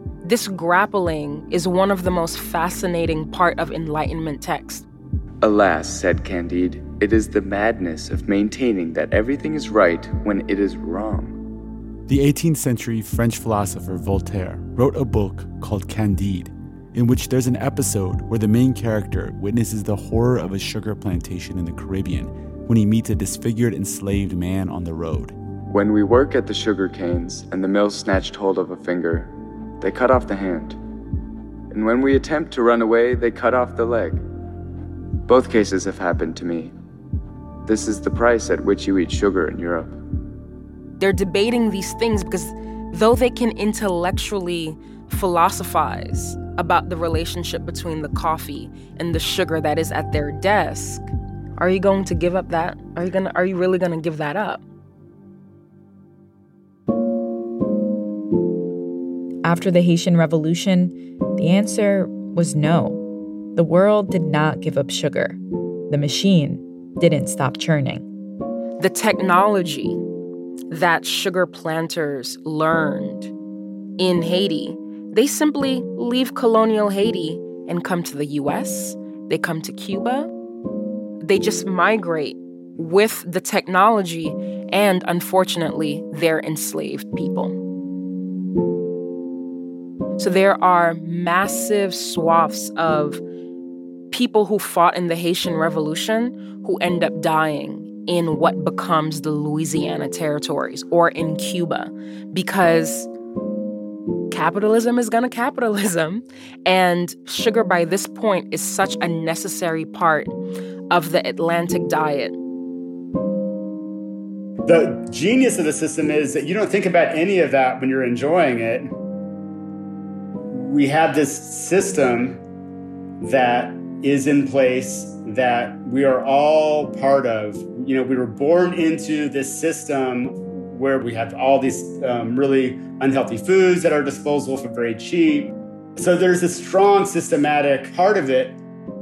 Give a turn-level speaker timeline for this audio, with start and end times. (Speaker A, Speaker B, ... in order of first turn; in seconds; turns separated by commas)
Speaker A: 0.2-4.9, Speaker B: 5.4-11.4, Speaker C: 12.1-25.4, Speaker B: 25.7-29.3, Speaker B: 29.8-30.8, Speaker B: 31.7-34.2, Speaker B: 35.3-36.7, Speaker B: 37.7-39.9, Speaker A: 41.0-54.6, Speaker D: 59.4-63.0, Speaker D: 63.5-68.1, Speaker A: 68.8-70.0, Speaker A: 70.7-73.3, Speaker A: 74.0-80.3, Speaker A: 81.2-87.5, Speaker A: 90.2-93.2, Speaker A: 94.1-103.1, Speaker A: 104.3-110.3, Speaker A: 110.9-112.3, Speaker E: 114.7-118.9, Speaker E: 120.5-122.4, Speaker E: 123.2-138.6